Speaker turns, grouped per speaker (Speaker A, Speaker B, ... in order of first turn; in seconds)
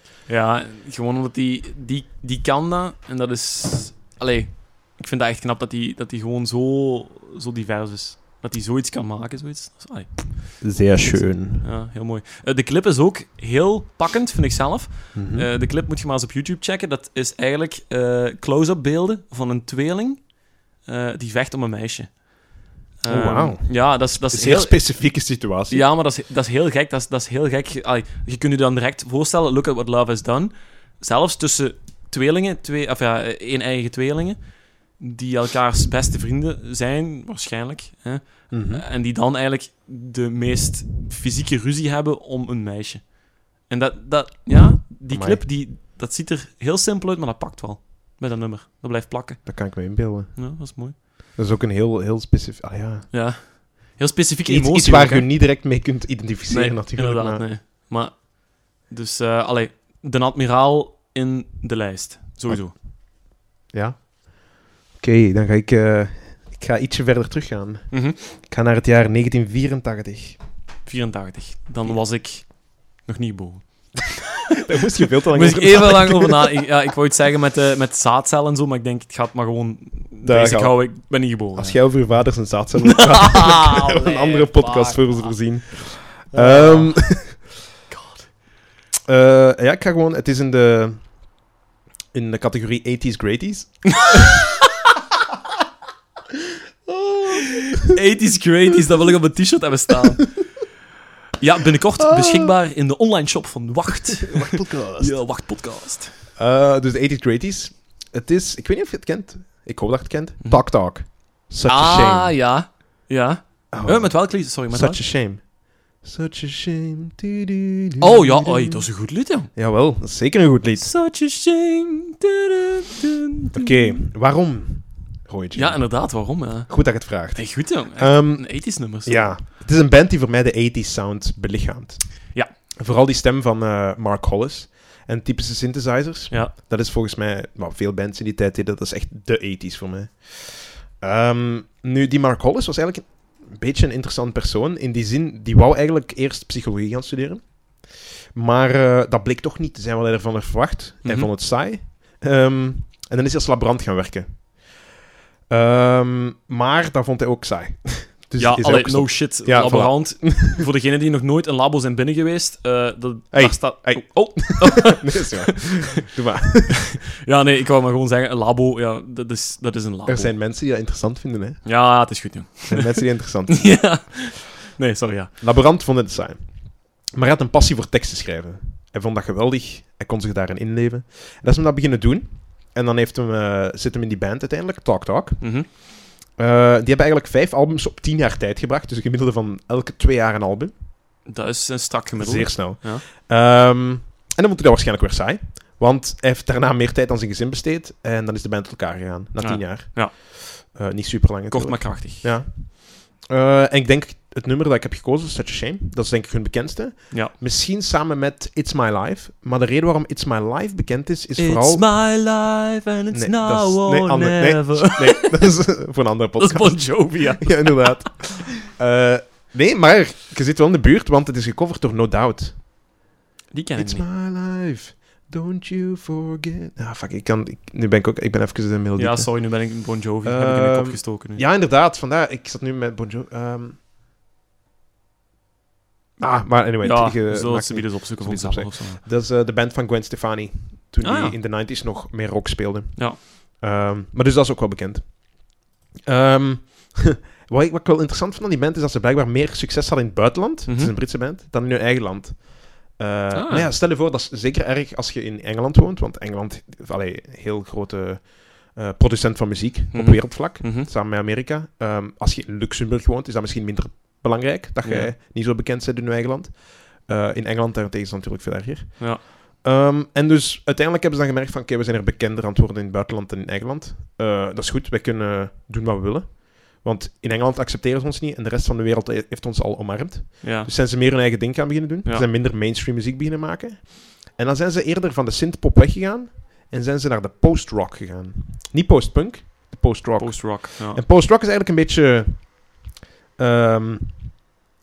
Speaker A: 0.3-51.0, 53.1-55.3, 56.5-62.7, 67.9-68.2, 70.8-74.2, 75.3-82.0, 82.8-85.5, 86.3-88.3, 97.6-100.7, 101.4-106.1, 110.4-115.0, 118.0-119.5, 120.8-123.8, 125.5-129.4, 151.0-151.3, 158.4-165.2, 167.2-170.3, 171.6-175.4, 185.4-185.7, 191.2-193.1, 199.4-200.1, 201.5-202.4, 211.4-215.5, 216.4-218.1, 223.5-224.1, 229.0-231.4, 236.8-239.0, 241.0-241.4, 243.0-243.2, 250.7-250.9, 253.3-253.7, 259.9-260.9, 264.8-265.1, 280.4-280.7, 290.2-291.0
Speaker B: 10.6-11.7, 15.1-15.5, 23.1-25.9, 38.5-38.9, 45.1-45.5, 49.5-53.2, 54.5-57.5, 62.5-62.9, 63.7-70.4, 74.5-76.6, 80.2-87.5, 89.1-91.4, 92.1-94.3, 96.9-97.8, 102.2-102.5, 104.1-105.2, 106.3-112.5, 113.7-118.9, 119.5-120.9, 123.5-154.8, 155.5-160.7, 163.3-167.0, 170.1-174.2, 175.4-190.8, 192.2-212.3, 213.1-222.7, 223.8-233.8, 236.2-292.8, 293.4-294.5